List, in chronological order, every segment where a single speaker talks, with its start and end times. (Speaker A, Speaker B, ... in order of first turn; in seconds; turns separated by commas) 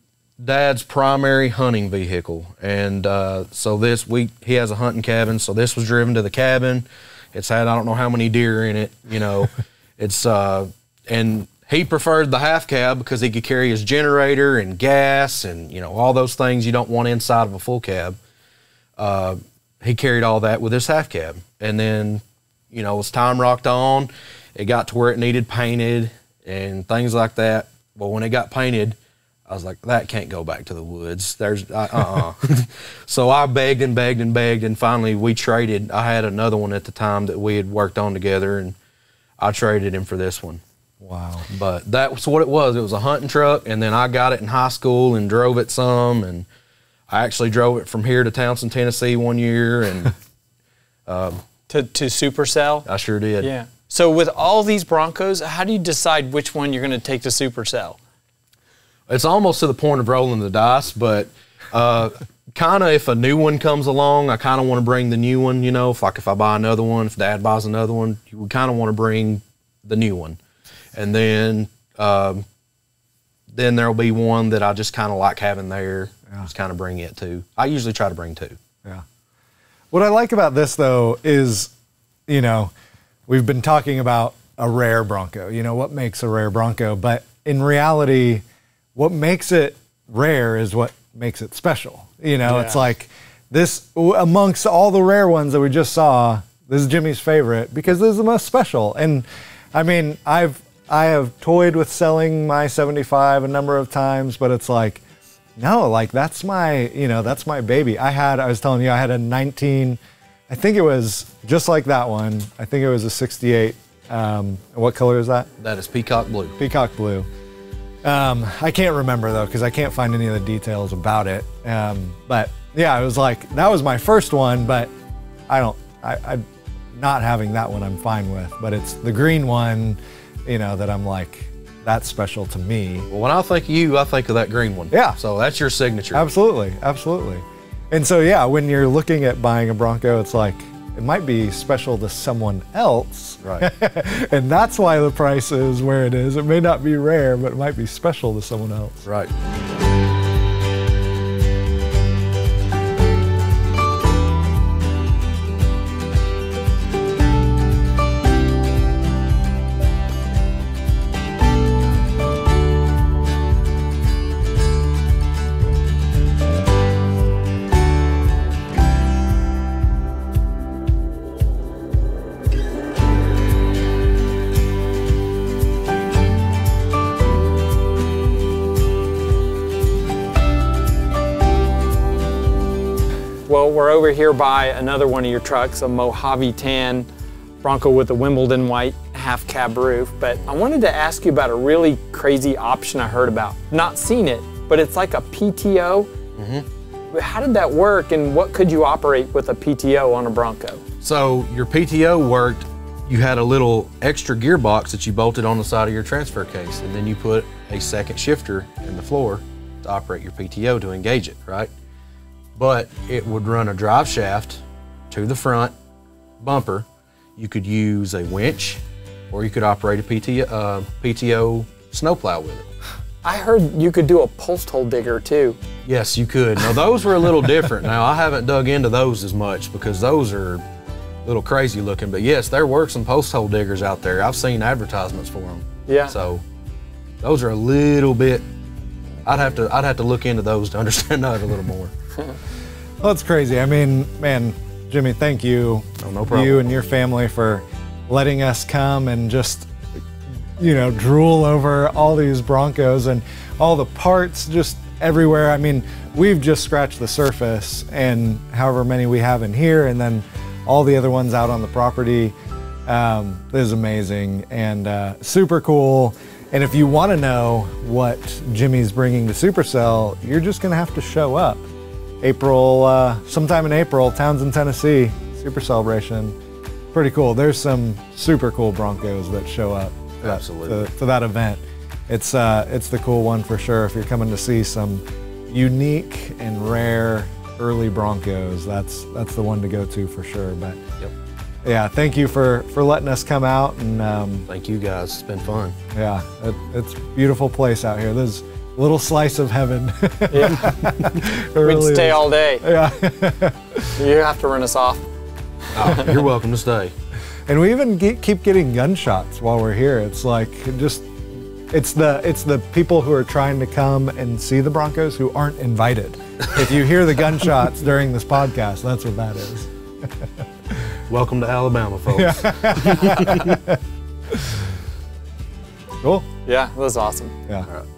Speaker A: 0.4-18.2, Speaker A: 19.0-38.8, Speaker A: 39.4-40.6, Speaker B: 41.0-41.5, Speaker A: 41.5-46.5, Speaker A: 47.1-50.1, Speaker A: 51.0-51.4, Speaker C: 51.7-52.9, Speaker A: 52.9-53.5, Speaker C: 53.4-58.0, Speaker A: 59.1-70.4, Speaker A: 70.9-72.5, Speaker A: 73.5-78.6, Speaker B: 79.9-81.7, Speaker B: 82.3-82.7, Speaker B: 83.3-88.4, Speaker B: 89.0-105.0, Speaker C: 92.5-92.8, Speaker B: 105.6-115.5, Speaker A: 115.6-116.6, Speaker B: 116.6-117.3, Speaker B: 118.0-124.9, Speaker B: 125.5-126.4, Speaker B: 127.0-133.1, Speaker A: 133.1-136.3, Speaker B: 134.9-135.2, Speaker B: 136.1-149.1, Speaker A: 149.0-149.3, Speaker C: 183.5-187.1, Speaker C: 187.6-196.1, Speaker A: 196.3-196.7, Speaker C: 197.1-200.8, Speaker A: 201.0-211.7, Speaker A: 212.6-215.7, Speaker A: 216.4-222.7, Speaker C: 223.2-225.6, Speaker A: 225.8-230.6, Speaker A: 231.2-236.4, Speaker C: 235.9-236.2, Speaker A: 237.2-238.4, Speaker A: 239.2-241.9, Speaker B: 243.0-249.7, Speaker A: 246.0-246.7, Speaker B: 250.6-262.3, Speaker B: 262.9-271.6, Speaker B: 272.2-276.4, Speaker B: 276.9-290.8, Speaker A: 280.2-280.9, Speaker B: 291.6-294.5, Speaker A: 294.5-295.8, Speaker B: 295.9-304.0, Speaker C: 300.3-301.0, Speaker C: 301.6-302.6, Speaker C: 304.0-305.0, Speaker A: 305.7-306.9, Speaker C: 305.8-306.1, Speaker B: 307.5-311.1, Speaker B: 311.7-319.7, Speaker A: 321.1-323.6, Speaker B: 322.1-323.8, Speaker B: 324.3-324.6, Speaker B: 326.0-326.3, Speaker C: 326.4-327.3